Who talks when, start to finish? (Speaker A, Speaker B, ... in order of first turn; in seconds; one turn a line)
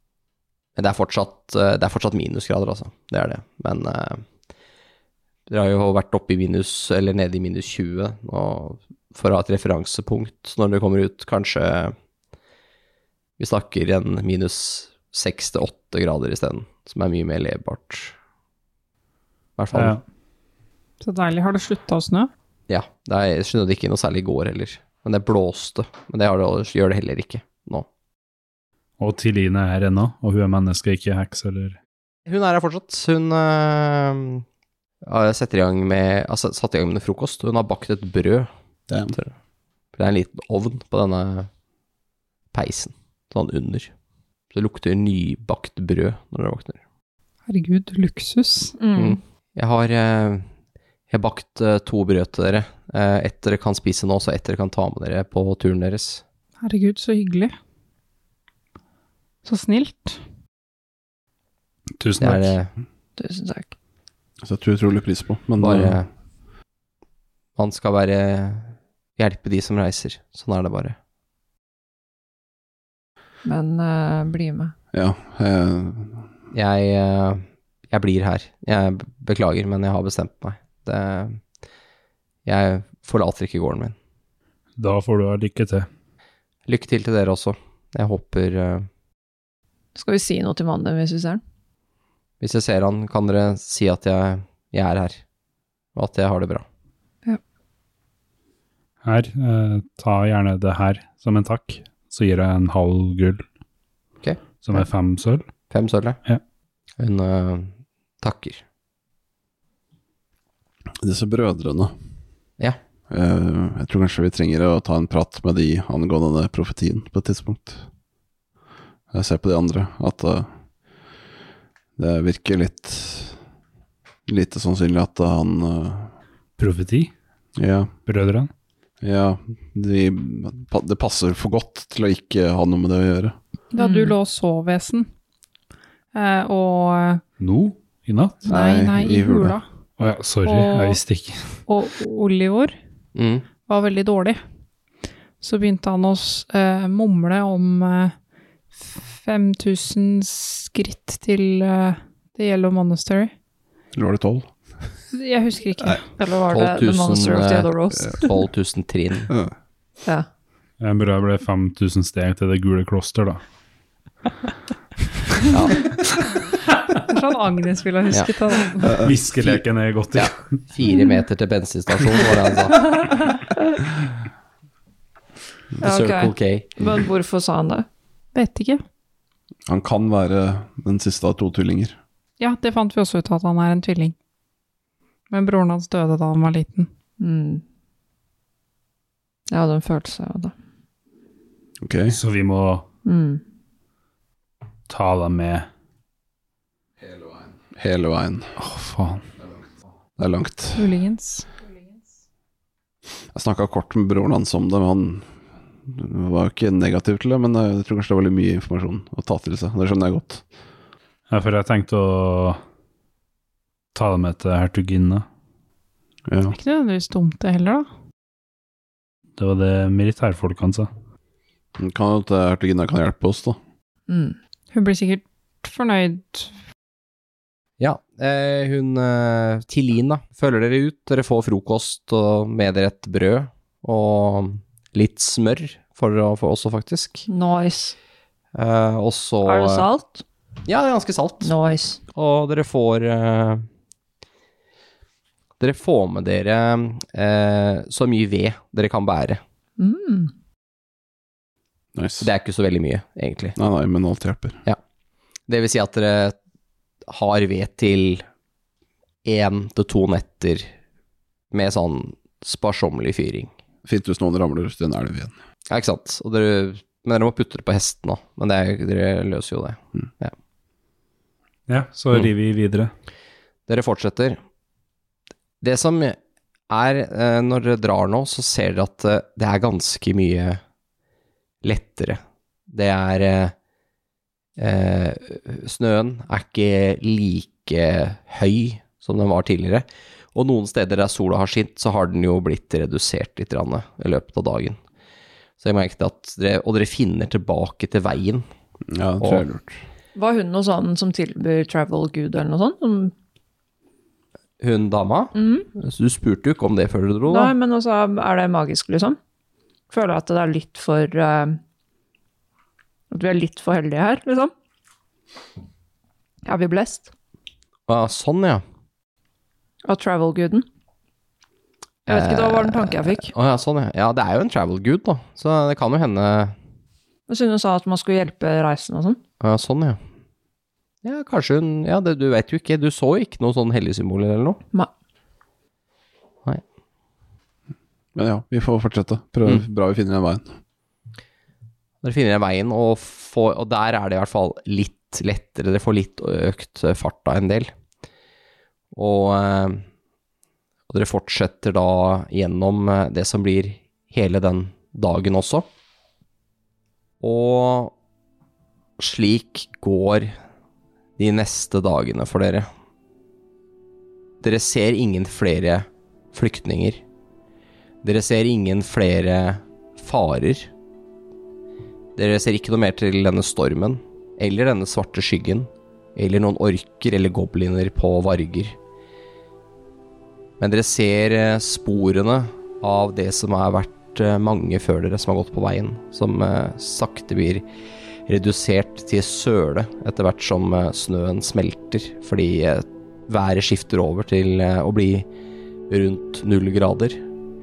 Speaker A: 0.8-4.2
Speaker A: 5.5-11.9
Speaker A: 13.4-18.1
Speaker A: 19.6-20.0
Speaker B: 19.7-20.0
Speaker C: 21.0-22.3
Speaker A: 22.7-27.9
Speaker B: 29.0-31.8
Speaker A: 32.2-34.4
Speaker A: 35.0-38.5
Speaker D: 38.9-39.1
Speaker A: 40.0-41.5
Speaker A: 42.5-43.9
Speaker A: 44.5-46.8
Speaker C: 47.5-48.8
Speaker E: 48.8-49.2
Speaker A: 49.0-50.5
Speaker A: 51.1-56.2
Speaker C: 56.6-57.5
Speaker C: 59.4-60.2
Speaker B: 62.0-62.5
Speaker A: 62.2-62.7
Speaker E: 63.2-63.7
Speaker D: 64.4-66.0
Speaker A: 65.6-66.1
Speaker A: 67.6-71.0
Speaker E: 73.4-74.7
Speaker D: 74.9-76.2
Speaker A: 76.5-81.4
Speaker A: 82.4-84.0
Speaker B: 84.8-85.9
Speaker A: 86.7-88.9
Speaker E: 89.9-91.4
Speaker A: 92.4-95.2
Speaker A: 95.9-96.6
Speaker B: 99.0-103.5
Speaker B: 104.6-105.4
Speaker A: 105.7-106.2
Speaker A: 107.0-108.6
Speaker D: 111.0-111.9
Speaker D: 113.1-117.8
Speaker D: 119.1-120.5
Speaker D: 122.0-123.4
Speaker D: 124.2-126.1
Speaker B: 126.6-127.1
Speaker D: 127.5-127.9
Speaker B: 128.1-128.5
Speaker D: 129.0-133.3
Speaker C: 133.7-135.1
Speaker E: 133.8-134.1
Speaker C: 136.1-137.2
Speaker B: 137.4-138.5
Speaker C: 138.5-139.6
Speaker D: 138.5-139.6
Speaker B: 140.0-141.6
Speaker C: 140.4-141.0
Speaker C: 141.7-142.8
Speaker A: 143.1-143.5
Speaker C: 143.6-144.4
Speaker C: 145.4-148.2
Speaker C: 148.7-153.3
Speaker D: 153.9-154.9
Speaker C: 155.1-156.0
Speaker E: 156.1-158.3
Speaker A: 156.5-159.3
Speaker D: 159.3-159.5
Speaker B: 160.8-163.4
Speaker A: 165.5-165.8
Speaker C: 167.1-169.1
Speaker D: 168.8-169.1
Speaker B: 169.0-170.6
Speaker A: 170.1-172.8
Speaker A: 175.8-176.8
Speaker E: 175.8-177.8
Speaker C: 178.3-178.8
Speaker D: 179.7-182.0
Speaker C: 182.4-184.1
Speaker C: 185.3-186.9
Speaker E: 187.2-187.6
Speaker E: 189.5-190.5
Speaker D: 191.8-192.2
Speaker B: 192.1-192.8
Speaker E: 193.0-193.4
Speaker B: 194.9-195.7
Speaker D: 197.1-198.5
Speaker B: 198.6-199.2
Speaker D: 200.2-200.9
Speaker C: 200.7-201.5
Speaker D: 203.3-205.3
Speaker D: 205.8-210.4
Speaker B: 211.3-212.6
Speaker B: 213.9-215.2
Speaker D: 216.3-216.6
Speaker C: 216.5-217.9
Speaker B: 219.4-220.9
Speaker D: 221.8-223.6
Speaker E: 224.1-224.4
Speaker C: 224.7-226.5
Speaker A: 227.8-237.2
Speaker E: 237.3-237.9
Speaker A: 238.5-239.9
Speaker E: 239.4-240.2
Speaker A: 240.6-241.5
Speaker E: 241.4-242.0
Speaker A: 242.1-243.6
Speaker A: 245.6-249.4
Speaker E: 249.8-250.3
Speaker D: 251.9-252.3
Speaker A: 252.2-253.6
Speaker D: 253.6-254.6
Speaker A: 255.5-256.4
Speaker A: 257.1-258.2
Speaker A: 259.2-260.7
Speaker A: 261.5-263.5
Speaker D: 263.8-265.3
Speaker A: 265.7-270.3
Speaker B: 271.7-272.9
Speaker A: 273.7-274.4
Speaker A: 275.6-276.2
Speaker A: 276.7-280.6
Speaker A: 281.6-283.5
Speaker A: 284.6-294.8
Speaker A: 295.6-298.4
Speaker D: 298.9-299.8
Speaker A: 299.2-299.4
Speaker E: 300.1-303.1
Speaker A: 304.6-307.5
Speaker E: 305.4-305.7
Speaker E: 307.3-309.2
Speaker E: 309.9-311.6
Speaker E: 313.1-314.5
Speaker E: 316.4-317.1
Speaker A: 317.9-318.6
Speaker E: 319.8-320.6
Speaker E: 322.1-323.3
Speaker A: 322.1-326.5
Speaker E: 327.3-329.2
Speaker A: 329.4-330.0
Speaker A: 331.0-334.6
Speaker D: 338.1-340.6
Speaker A: 342.0-347.7
Speaker A: 348.9-349.8
Speaker A: 350.9-355.7
Speaker A: 357.2-357.9
Speaker A: 359.0-360.3
Speaker A: 361.2-362.7
Speaker A: 364.4-367.0
Speaker A: 368.0-370.7
Speaker A: 372.1-378.8
Speaker A: 380.6-387.6
Speaker A: 388.3-395.3
Speaker A: 395.9-397.2